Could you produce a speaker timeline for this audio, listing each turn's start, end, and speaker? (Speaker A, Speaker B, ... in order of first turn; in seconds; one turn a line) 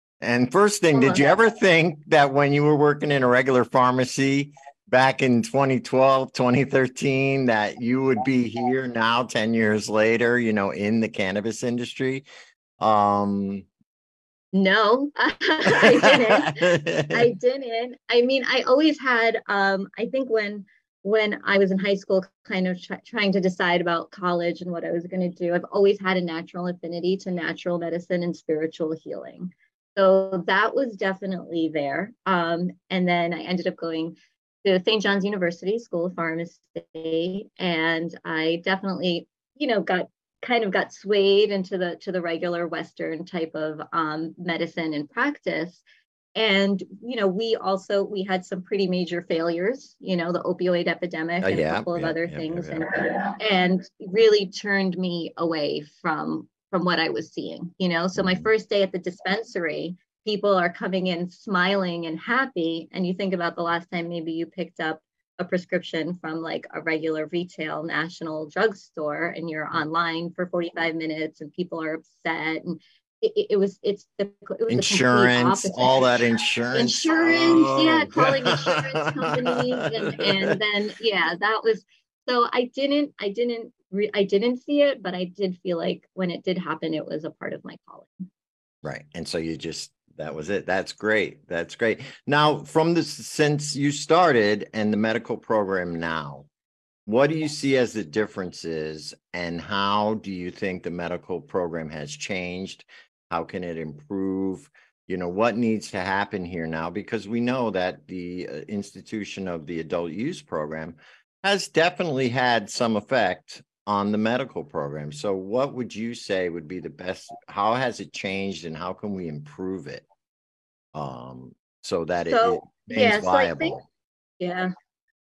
Speaker A: 0.2-12.2
Speaker B: 0.9-1.2
Speaker A: 12.8-13.7
Speaker B: 14.5-45.8
Speaker A: 15.7-17.3
Speaker B: 46.4-88.2
Speaker A: 51.4-52.8
Speaker A: 58.1-58.5
Speaker A: 74.7-80.6
Speaker A: 88.8-96.5
Speaker A: 97.0-120.0
Speaker A: 120.9-123.8
Speaker B: 122.3-123.8
Speaker B: 124.4-124.7